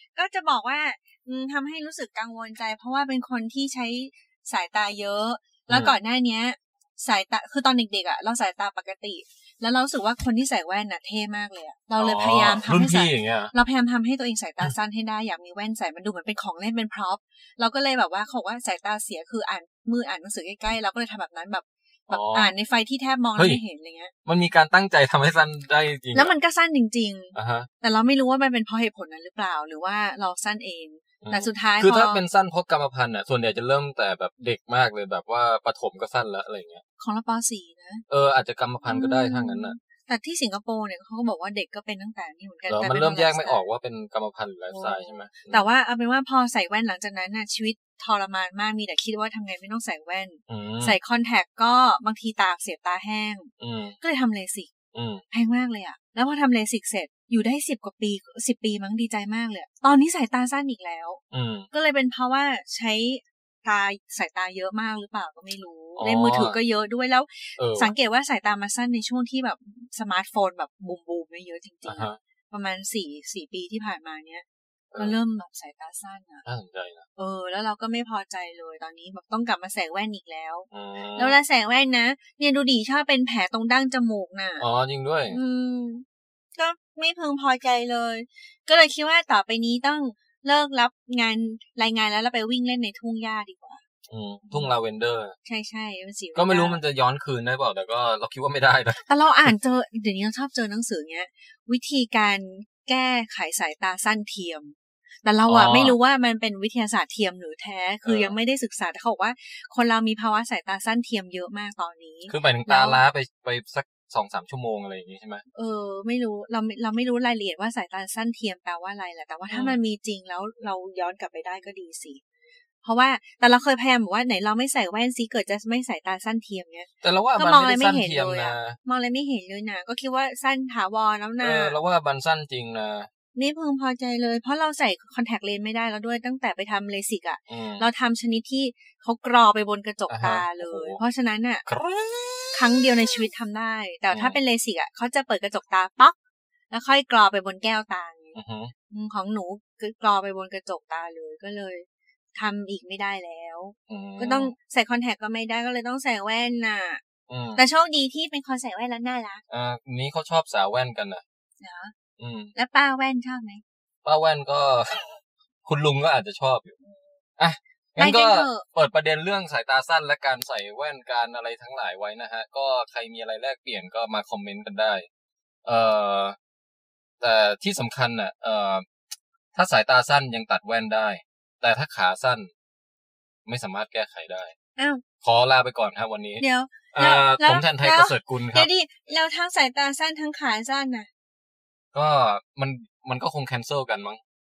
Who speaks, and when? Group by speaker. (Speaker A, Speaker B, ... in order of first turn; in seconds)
Speaker A: 0.2-24.1, 26.1-32.2, 37.0-38.0, 38.9-43.7, 44.7-54.7, 55.3-74.5, 75.0-76.4, 77.2-84.7, 85.3-86.0, 86.6-93.8, 95.5-96.8, 99.0-113.0, 115.5-122.2, 122.8-131.8, 133.3-141.6, 142.5-146.2, 146.7-148.4, 148.9-157.0, 157.6-159.4, 161.6-161.9, 162.6-163.6, 166.8-167.2, 168.0-168.7, 184.8-185.0, 186.4-191.1
Speaker B: 12.0-13.5, 22.1-22.5, 23.4-23.6, 24.3-26.4, 27.4-27.7, 31.2-36.8, 38.1-39.8, 42.7-45.6, 50.5-51.0, 53.6-54.0, 54.9-55.2, 61.3-61.7, 66.0-66.6, 67.6-67.9, 71.9-72.2, 76.5-77.0, 80.7-81.4, 84.6-85.4, 94.1-95.3, 96.4-99.5, 105.5-106.0, 108.0-108.3, 112.3-115.4, 119.5-119.8, 127.0-128.8, 131.4-133.1, 137.5-137.9, 140.1-141.0, 141.7-143.2, 144.1-144.4, 148.3-148.7, 153.9-154.5, 157.3-157.6, 159.5-161.2, 162.2-162.5, 164.1-166.8, 167.4-175.1, 175.7-176.4, 177.2-178.8, 179.6-182.5, 183.5-184.5, 185.2-188.7, 191.9-194.2